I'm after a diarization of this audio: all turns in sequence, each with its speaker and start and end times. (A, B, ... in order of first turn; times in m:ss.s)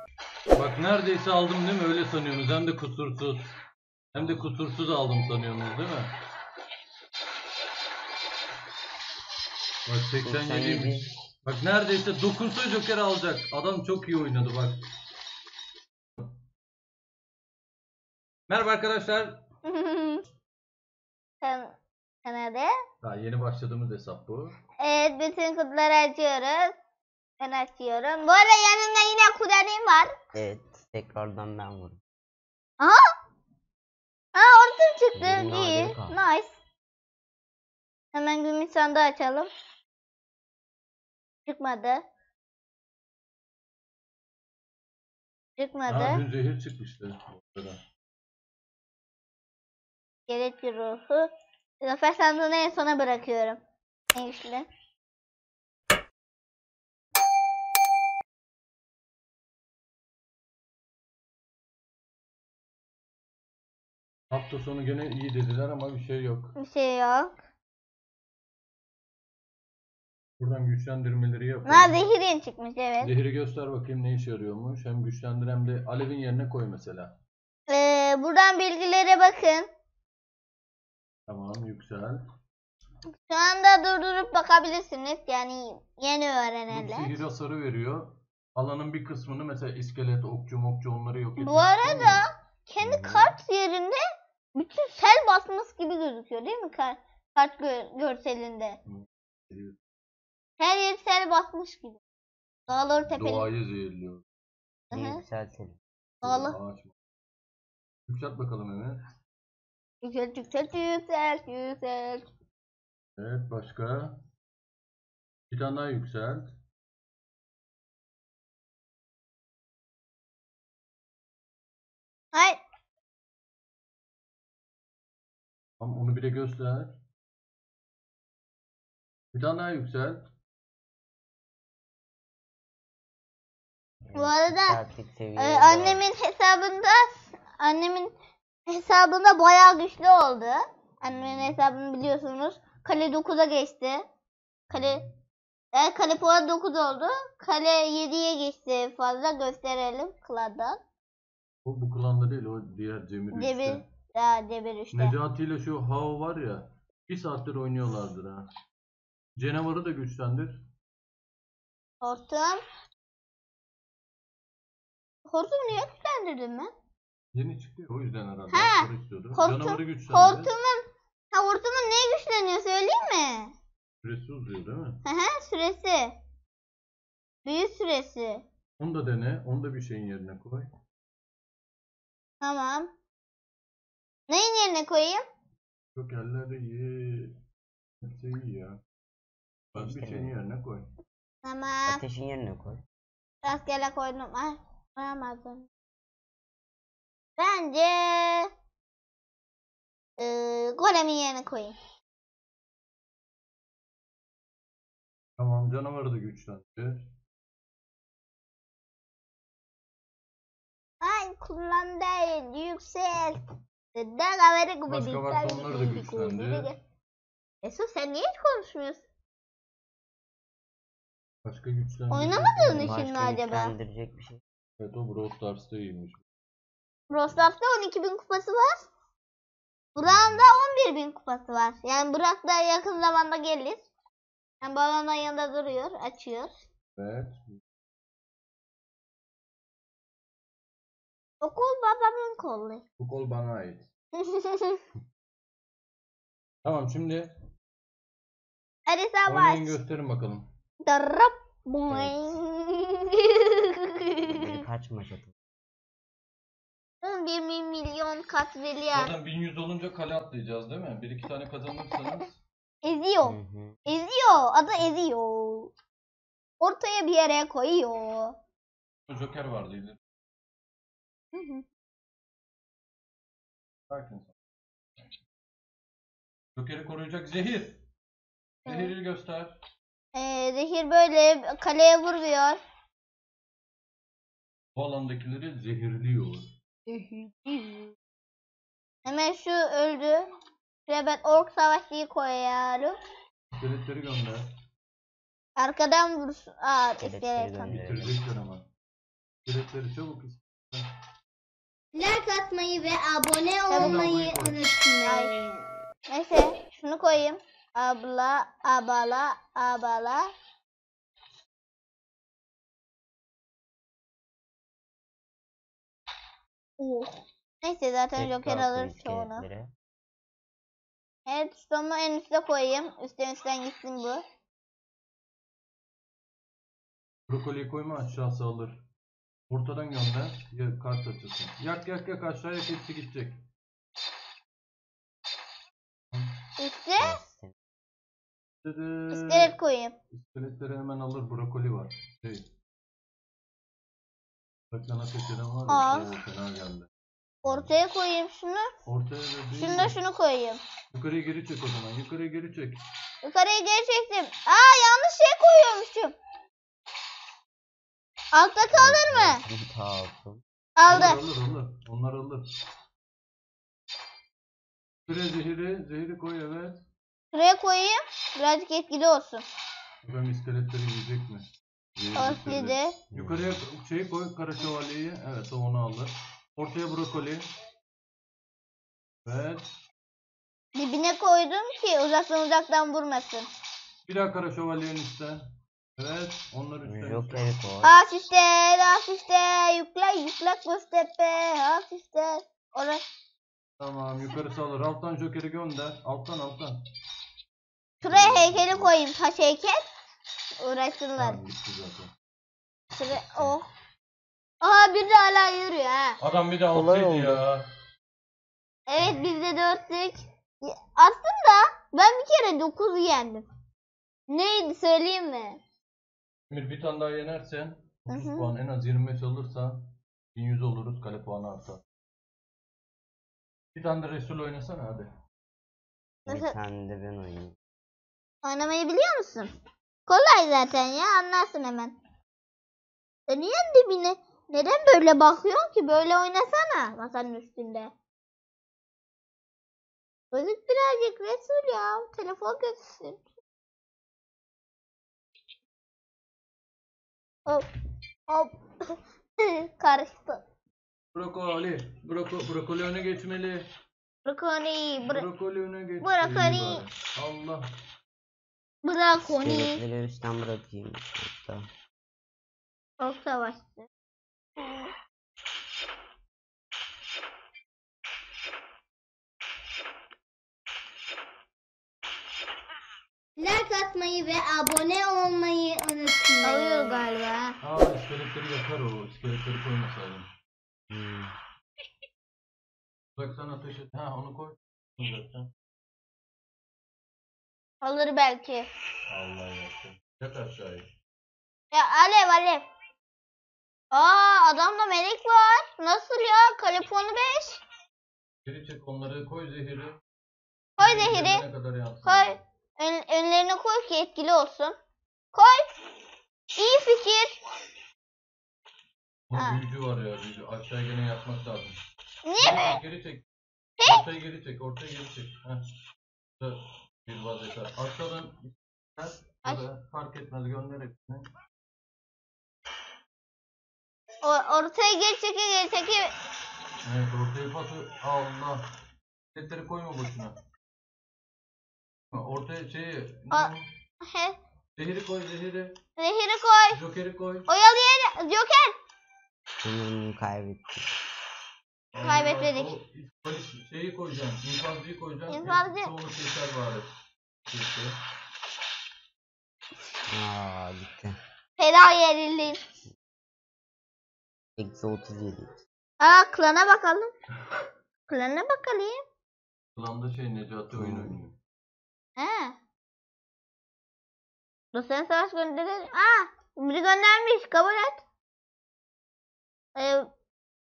0:00.5-0:03.5 A
0:04.1-0:06.1 A
0:09.9-0:14.8 A
0:10.2-0:11.1 B
0:18.5-0:19.4 A
0:19.7-0:20.2 C
0:21.4-0:22.7 C
0:23.0-0:24.6 A
0:24.8-0:26.7 C
0:27.4-0:30.1 C
0:30.3-0:32.0 B
0:34.3-0:36.6 C
0:35.1-0:36.2 B
0:38.1-0:39.5 C
0:41.4-0:42.0 C
0:45.6-0:46.2 C
0:45.9-0:47.8 A
0:50.3-0:51.3 C
0:51.8-0:53.6 C
0:54.1-0:54.7 C
1:04.3-1:06.5 A
1:06.6-1:07.4 C
1:10.4-1:12.0 A
1:11.7-1:13.1 C
1:13.0-1:17.1 A
1:17.7-1:19.7 C
1:21.3-1:22.2 A
1:23.3-1:27.1 C
1:26.7-1:32.2 A
1:31.4-1:34.0 C
1:32.8-1:33.3 B
1:34.6-1:38.8 C
1:38.9-1:39.8 A
1:40.6-1:42.0 C
1:42.7-1:43.5 C
1:43.1-1:44.2 A
1:44.9-1:45.2 C
1:44.9-1:45.8 B
1:46.2-1:46.6 C
1:46.2-1:46.9 A
1:48.1-1:49.0 A
1:50.0-1:52.3 C
1:53.2-1:54.1 A
1:55.5-1:56.5 A
2:02.3-2:02.6 C
2:05.8-2:06.9 A
2:09.3-2:10.2 A
2:14.1-2:16.0 B
2:14.2-2:14.8 C
2:15.4-2:18.1 C
2:18.7-2:24.0 C
2:24.7-2:25.0 C
2:25.7-2:30.8 C
2:31.6-2:33.8 A
2:33.3-2:35.2 C
2:34.9-2:38.5 A
2:39.4-2:40.6 A
2:42.0-2:42.6 C
2:45.3-2:46.7 C
2:47.3-2:50.5 A
2:48.5-2:53.5 C
2:54.0-2:55.0 A
2:55.0-2:56.2 C
2:57.4-2:58.4 C
2:58.8-3:00.7 A
3:02.4-3:02.9 C
3:04.3-3:05.2 C
3:06.0-3:07.3 A
3:08.0-3:08.8 A
3:09.7-3:10.9 A
3:09.8-3:10.3 B
3:11.4-3:12.0 C
3:11.9-3:12.8 B
3:13.4-3:15.7 C
3:17.4-3:18.5 C
3:20.2-3:21.8 C
3:25.4-3:27.1 A
3:31.0-3:33.4 C
3:33.9-3:36.8 C
3:34.9-3:36.7 A
3:37.6-3:39.0 C
3:41.4-3:43.0 A
3:42.1-3:43.8 C
3:42.7-3:44.4 B
3:44.8-3:46.2 A
3:47.1-3:48.9 C
3:50.0-3:53.9 C
3:54.6-3:56.6 C
3:57.0-3:57.6 A
4:01.4-4:02.8 C
4:03.0-4:03.9 A
4:04.2-4:04.8 C
4:06.6-4:07.3 A
4:08.9-4:09.8 C
4:09.3-4:10.5 A
4:10.8-4:14.6 C
4:14.2-4:15.3 B
4:17.0-4:19.1 C
4:18.9-4:22.4 A
4:22.8-4:25.7 C
4:23.2-4:23.8 B
4:26.6-4:28.3 C
4:29.1-4:30.0 A
4:31.3-4:31.6 C
4:33.9-4:34.3 A
4:36.6-4:37.8 A
4:38.6-4:39.6 A
4:38.6-4:38.9 C
4:40.1-4:42.6 C
4:44.8-4:46.4 A
4:46.9-4:47.9 D
4:49.1-4:50.2 C
4:50.9-4:52.9 C
4:53.6-4:54.4 A
4:55.6-4:57.7 C
4:57.0-4:58.1 B
4:57.6-4:58.6 A
4:59.4-5:00.8 A
5:01.9-5:05.6 D
5:03.7-5:04.1 C
5:03.8-5:04.7 A
5:05.0-5:05.3 C
5:06.1-5:10.3 C
5:16.8-5:19.4 C
5:18.2-5:19.7 B
5:21.2-5:24.2 C
5:27.3-5:28.8 A
5:29.5-5:33.4 A
5:36.6-5:37.2 C
5:37.0-5:37.5 B
5:38.6-5:39.5 A
5:39.1-5:39.9 C
5:40.1-5:42.4 A
5:44.7-5:46.9 A
5:45.7-5:46.1 C
5:47.4-5:48.7 C
5:48.9-5:50.0 A
5:49.5-5:50.6 C
5:50.9-5:52.8 A
5:53.2-5:56.2 C
5:58.3-5:59.4 C
5:58.7-6:00.4 B
6:00.8-6:01.2 C
6:00.8-6:02.4 A
6:05.1-6:06.8 A
6:07.3-6:09.4 C
6:10.0-6:17.4 A
6:12.2-6:13.0 C
6:13.1-6:13.6 B
6:19.2-6:19.6 A
6:20.8-6:23.5 C
6:24.1-6:25.4 A
6:26.0-6:27.5 A
6:26.8-6:27.9 B
6:27.8-6:33.0 C
6:33.8-6:36.8 A
6:38.0-6:39.8 C
6:38.1-6:38.9 A
6:40.6-6:41.4 C
6:41.2-6:42.1 A
6:42.9-6:43.7 C
6:43.1-6:43.5 B
6:44.6-6:46.2 C
6:46.2-6:47.6 A
6:46.7-6:47.4 B
6:48.9-6:53.4 C
6:54.3-6:55.6 C
6:56.5-7:01.8 A
6:58.1-6:58.5 C
7:03.7-7:05.1 A
7:06.3-7:06.5 C
7:06.3-7:07.6 B
7:08.4-7:09.5 C
7:10.1-7:12.0 C
7:13.3-7:17.9 C
7:20.3-7:23.2 C
7:28.3-7:28.9 C
7:29.4-7:30.4 C
7:31.1-7:33.6 A
7:34.2-7:35.3 C
7:35.0-7:37.6 A
7:36.0-7:36.8 C
7:38.8-7:39.8 C
7:39.3-7:41.6 B
7:43.0-7:43.9 C
7:44.6-7:44.9 C
7:53.4-7:57.1 D
7:56.4-7:57.6 C
7:57.6-8:00.3 A
8:00.9-8:01.3 B
8:03.2-8:05.5 A
8:07.8-8:08.7 C
8:09.1-8:10.8 A
8:11.7-8:12.7 C
8:13.9-8:17.6 C
8:18.4-8:20.0 A
8:20.8-8:22.4 A
8:20.8-8:21.4 C
8:22.0-8:24.8 C
8:25.3-8:25.7 C
8:26.6-8:27.4 C
8:29.3-8:31.8 A
8:29.3-8:29.6 C
8:32.2-8:32.8 C
8:32.4-8:33.2 A
8:33.8-8:34.0 C
8:33.8-8:35.6 A
8:36.4-8:41.2 A
8:44.2-8:46.1 C
8:46.8-8:48.6 A
8:49.3-8:50.4 A
8:52.1-8:53.6 A
8:54.0-8:54.4 C
8:54.8-8:55.8 A
8:56.0-8:56.8 C
8:56.7-8:57.5 A
8:57.5-8:58.8 C
8:59.6-9:00.9 B
9:01.9-9:06.9 A
9:02.0-9:02.7 C
9:05.3-9:05.9 C
9:07.5-9:08.0 A
9:10.1-9:11.2 B
9:11.6-9:12.6 C
9:14.6-9:15.6 B
9:16.0-9:17.1 C
9:18.1-9:19.0 C
9:19.8-9:21.3 A
9:20.7-9:21.2 B
9:22.2-9:22.6 C
9:24.7-9:28.0 C
9:29.8-9:30.1 C